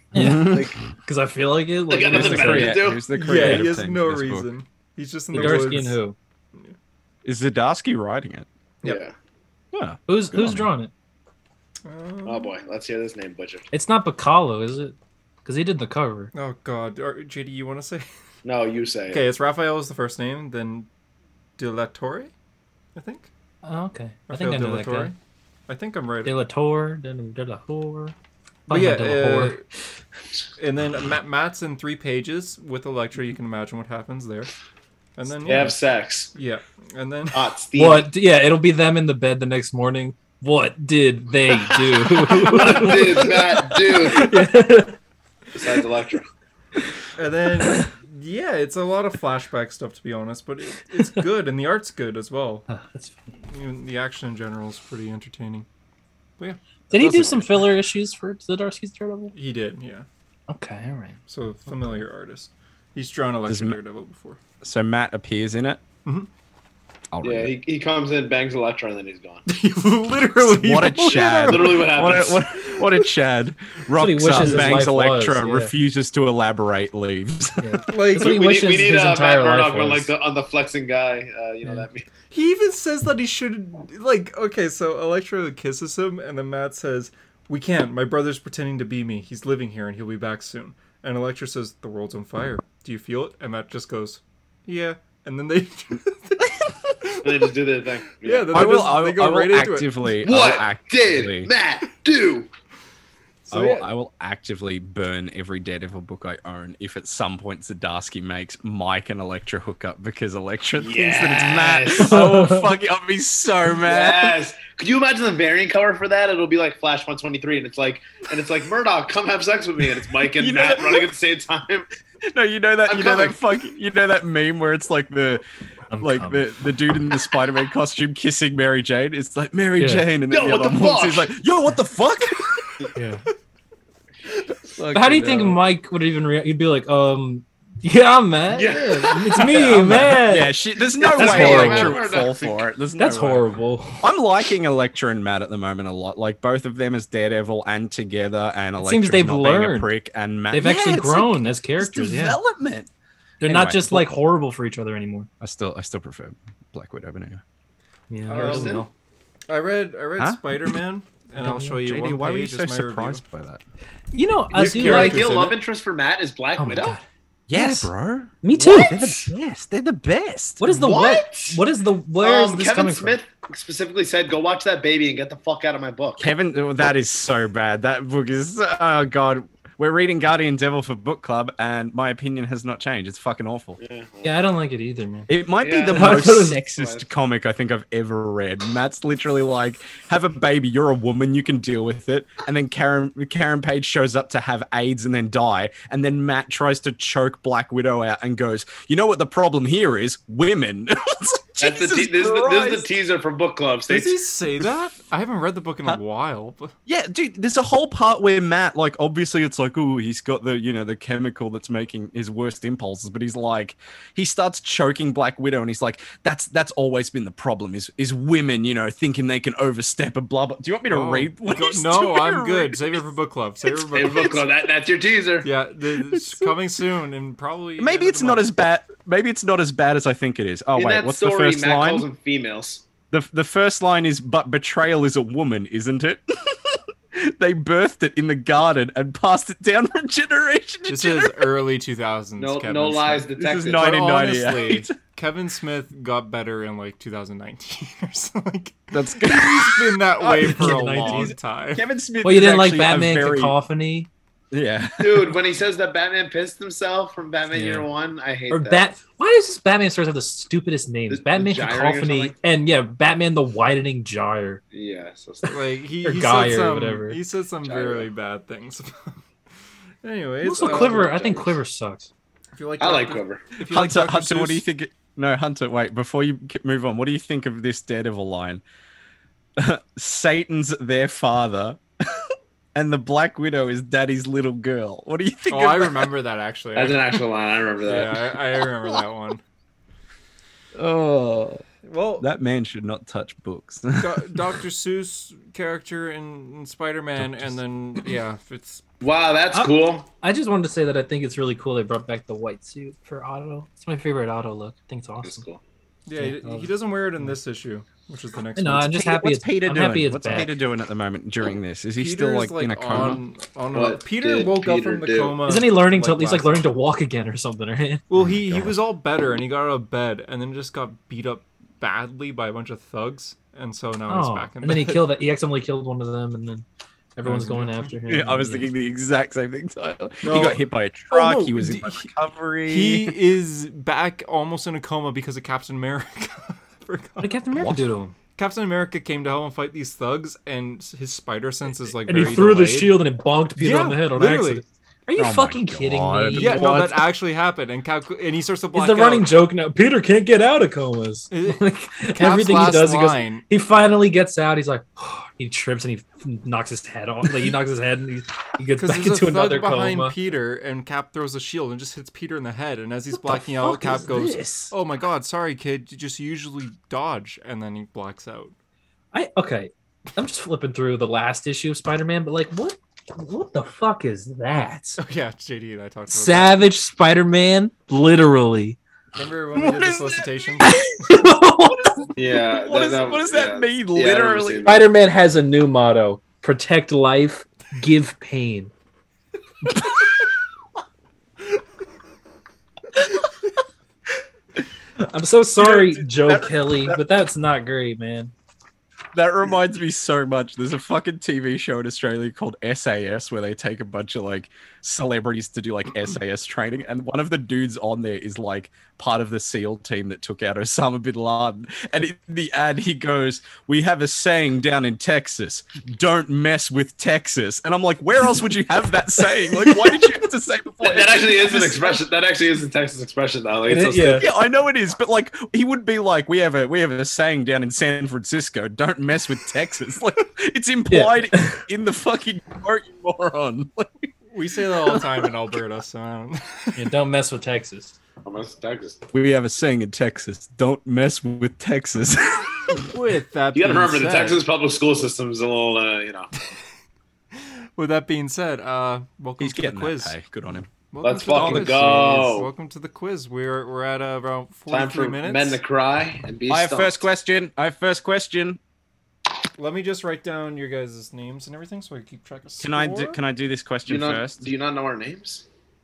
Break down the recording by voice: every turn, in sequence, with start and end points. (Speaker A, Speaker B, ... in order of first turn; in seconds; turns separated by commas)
Speaker A: 0.1-3.6, Speaker B: 0.1-0.8, Speaker C: 0.2-0.8, Speaker C: 1.9-3.0, Speaker B: 2.1-4.5, Speaker D: 3.1-6.0, Speaker A: 5.3-6.2, Speaker B: 5.3-5.8, Speaker B: 7.2-8.5, Speaker C: 8.8-9.1, Speaker B: 9.7-10.7, Speaker A: 10.1-10.9, Speaker D: 11.8-12.5, Speaker C: 12.2-13.6, Speaker A: 13.7-16.3, Speaker D: 16.3-18.1, Speaker C: 18.4-19.2, Speaker D: 19.1-20.9, Speaker D: 21.6-22.3, Speaker D: 22.9-23.3, Speaker A: 23.6-25.1, Speaker D: 24.3-25.1, Speaker D: 25.7-26.4, Speaker A: 26.2-28.1, Speaker A: 28.7-29.6, Speaker D: 28.7-29.6, Speaker D: 30.6-34.5, Speaker D: 35.2-35.8, Speaker C: 35.4-36.3, Speaker D: 36.3-37.4, Speaker C: 37.3-38.1, Speaker A: 37.7-45.0, Speaker C: 42.2-44.5, Speaker C: 45.5-46.3, Speaker D: 47.1-52.7, Speaker A: 52.7-53.4, Speaker D: 53.5-55.6, Speaker B: 56.9-57.5, Speaker A: 56.9-59.3, Speaker D: 59.3-60.0, Speaker A: 60.5-61.2, Speaker D: 61.3-64.4, Speaker B: 63.5-63.8, Speaker B: 64.6-65.8, Speaker B: 67.1-67.5, Speaker C: 67.2-69.4, Speaker D: 69.5-73.1, Speaker B: 70.4-77.8, Speaker C: 71.1-72.4, Speaker A: 74.0-75.7, Speaker D: 74.4-74.7, Speaker A: 77.6-80.1, Speaker D: 77.9-78.3, Speaker C: 78.1-82.1, Speaker D: 82.3-97.5, Speaker C: 97.2-98.8, Speaker D: 98.2-100.1, Speaker B: 98.5-101.5, Speaker C: 100.2-102.5, Speaker D: 103.5-103.9, Speaker B: 103.5-114.4, Speaker C: 110.8-112.3, Speaker A: 112.0-112.7, Speaker C: 113.8-121.8, Speaker B: 120.4-121.1, Speaker B: 122.2-125.4, Speaker C: 122.9-123.3, Speaker A: 125.9-126.4, Speaker B: 126.0-132.5, Speaker A: 129.8-130.0, Speaker C: 130.3-131.3, Speaker A: 132.9-133.2, Speaker B: 134.7-135.6, Speaker A: 134.9-140.5, Speaker C: 138.5-140.1, Speaker B: 139.5-152.9, Speaker C: 141.0-142.7, Speaker A: 141.1-142.0, Speaker A: 143.0-144.0, Speaker A: 148.8-149.9, Speaker A: 150.5-152.4, Speaker A: 153.4-155.3, Speaker B: 153.4-154.2, Speaker B: 155.4-157.4, Speaker A: 158.1-158.9, Speaker C: 158.3-158.9, Speaker D: 158.3-158.8, Speaker D: 159.5-163.2, Speaker A: 161.4-161.8, Speaker B: 161.8-163.6, Speaker A: 164.1-165.3, Speaker D: 164.5-165.6, Speaker C: 164.5-166.9, Speaker A: 166.6-167.0, Speaker B: 167.5-170.6, Speaker A: 167.5-167.9, Speaker A: 168.4-169.3, Speaker A: 170.6-173.2, Speaker C: 170.7-171.6, Speaker C: 172.2-176.3, Speaker B: 176.2-183.8, Speaker C: 183.8-184.3, Speaker A: 184.2-185.3, Speaker B: 185.3-202.9, Speaker C: 185.6-187.0, Speaker A: 185.9-186.8, Speaker C: 201.6-204.2, Speaker D: 203.9-206.7, Speaker B: 206.8-223.0, Speaker D: 220.9-224.4, Speaker C: 223.7-225.5, Speaker D: 225.4-228.5, Speaker B: 226.1-226.6, Speaker B: 227.8-232.1, Speaker C: 230.7-232.8, Speaker B: 233.1-241.5, Speaker D: 240.9-251.8, Speaker C: 242.4-243.8, Speaker B: 243.4-244.9, Speaker B: 248.9-253.6, Speaker A: 250.4-251.3, Speaker A: 252.2-254.1, Speaker B: 254.5-255.4, Speaker C: 255.0-258.9, Speaker A: 257.5-257.9, Speaker A: 258.5-264.6, Speaker C: 261.1-262.3, Speaker C: 264.7-265.6, Speaker D: 265.4-269.2, Speaker A: 266.0-267.2, Speaker C: 267.6-268.1, Speaker D: 270.0-271.4, Speaker A: 270.4-272.1, Speaker C: 270.6-271.4, Speaker D: 272.5-274.6, Speaker C: 272.8-273.4, Speaker B: 273.6-278.6, Speaker B: 279.6-286.1, Speaker D: 285.5-287.2, Speaker C: 286.8-288.4, Speaker D: 287.8-289.4, Speaker B: 290.7-291.6, Speaker D: 291.8-292.2, Speaker B: 292.2-294.3, Speaker D: 293.9-298.8, Speaker B: 297.1-297.6, Speaker C: 299.0-300.1, Speaker A: 299.5-305.4, Speaker C: 305.2-305.6, Speaker D: 306.1-308.9, Speaker A: 306.2-307.4, Speaker A: 308.6-310.5, Speaker B: 308.8-313.2, Speaker D: 311.9-316.6, Speaker C: 313.7-315.4, Speaker A: 315.4-318.0, Speaker D: 318.1-325.0, Speaker B: 318.2-318.7, Speaker A: 324.1-326.6, Speaker A: 327.1-328.7, Speaker D: 327.2-327.9, Speaker B: 328.1-333.1, Speaker D: 330.2-332.1, Speaker D: 332.6-337.3, Speaker A: 337.2-338.1, Speaker D: 338.4-343.0, Speaker A: 342.1-346.7, Speaker D: 343.6-344.6, Speaker B: 345.2-347.0, Speaker D: 346.3-349.3, Speaker A: 348.7-360.1, Speaker D: 351.3-353.4, Speaker D: 358.8-368.5, Speaker A: 363.6-364.7, Speaker A: 369.1-375.0, Speaker D: 375.0-376.6, Speaker A: 376.1-378.8, Speaker D: 379.1-380.7, Speaker B: 379.6-380.7, Speaker A: 380.6-382.1, Speaker C: 382.1-384.9, Speaker B: 382.3-384.7, Speaker A: 384.6-388.7, Speaker A: 395.0-398.3, Speaker B: 395.6-397.0, Speaker B: 399.1-421.7, Speaker C: 420.8-424.2, Speaker A: 421.5-421.9, Speaker A: 423.7-424.2, Speaker B: 423.9-434.1, Speaker A: 430.9-431.6, Speaker D: 434.3-436.9, Speaker A: 436.8-437.9, Speaker C: 438.2-439.0, Speaker B: 439.1-442.8, Speaker D: 442.8-444.4, Speaker C: 443.5-446.3, Speaker D: 447.3-450.2, Speaker B: 449.4-450.7, Speaker D: 450.9-455.6, Speaker C: 451.0-452.5, Speaker B: 451.3-452.2, Speaker C: 454.7-457.0, Speaker B: 456.5-458.6, Speaker D: 459.6-463.2, Speaker B: 462.6-464.5, Speaker C: 463.9-465.4